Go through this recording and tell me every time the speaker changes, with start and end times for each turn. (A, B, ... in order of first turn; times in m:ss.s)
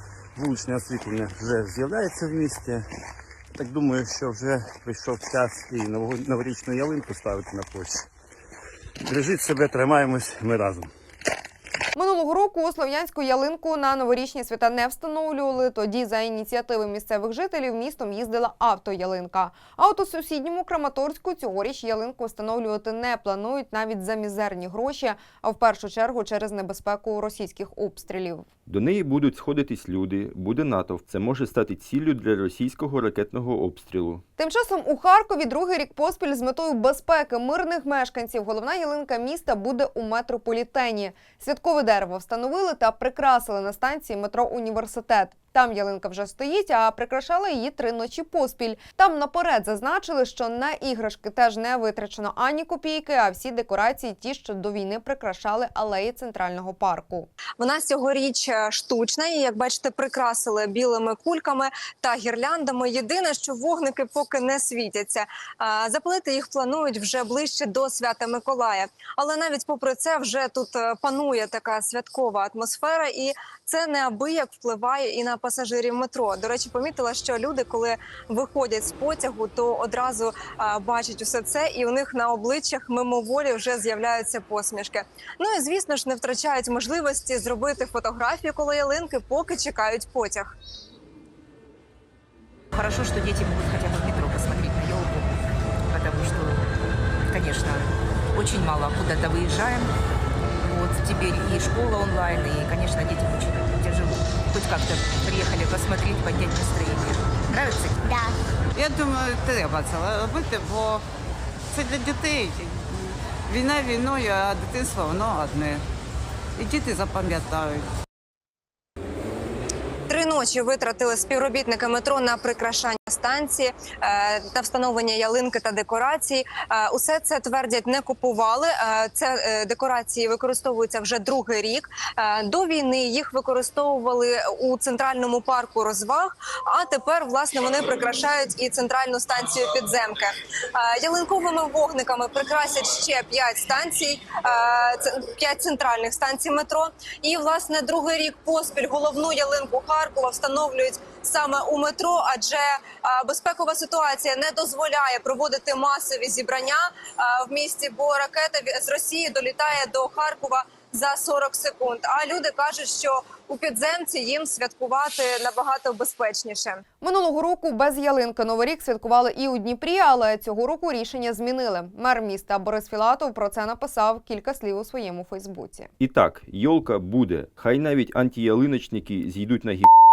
0:00.4-0:02.8 A
0:03.6-0:08.0 A
0:09.0-0:10.9 A
0:11.9-0:28.4 B
0:28.7-0:34.2 C
0:34.4-0:57.3 B
0:57.6-1:30.5 D
1:32.7-1:35.3 E
1:35.9-1:36.6 E
1:37.2-1:39.9 E
1:40.6-1:48.1 E
1:48.8-1:51.0 F
1:51.7-1:55.8 F
1:56.6-1:57.8 F
2:00.1-2:46.8 D
2:47.0-2:55.9 B
2:56.0-2:59.9 C